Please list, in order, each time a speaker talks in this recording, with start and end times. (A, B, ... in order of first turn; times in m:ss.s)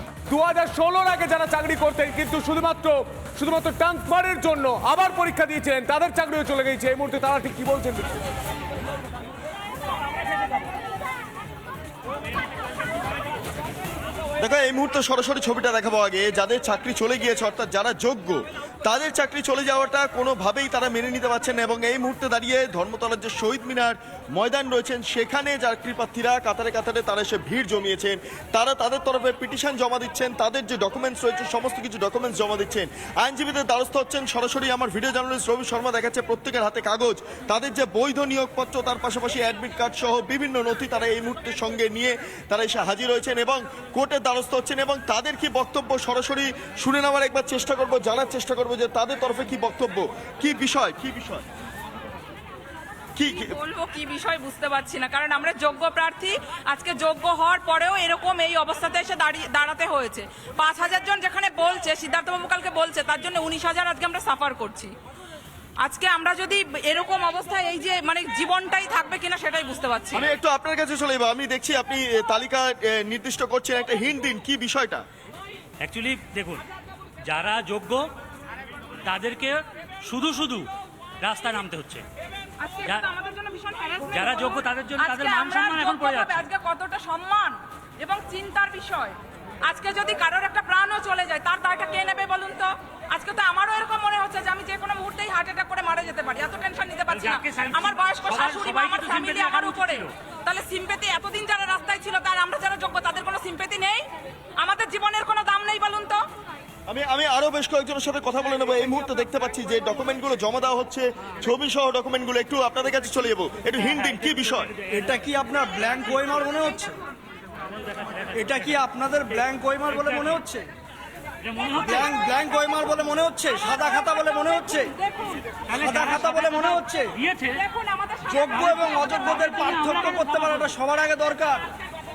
0:00.3-0:08.1 A
0:14.4-0:51.4 B
0:53.2-0:53.5 B
0:53.3-1:04.9 C
1:05.8-1:10.3 C
1:10.1-1:15.0 B
1:15.8-1:16.6 D
1:17.3-1:18.1 D
1:19.1-1:20.7 D
1:21.2-1:22.0 D
1:22.6-1:44.0 C
1:24.1-1:26.4 D
1:38.4-1:39.8 D
1:44.6-1:46.2 C
1:46.9-1:54.7 B
1:54.9-1:57.0 E
1:58.3-2:00.7 E
2:01.7-2:05.0 E
2:05.7-2:07.2 E
2:07.5-2:08.2 C
2:08.3-2:11.7 E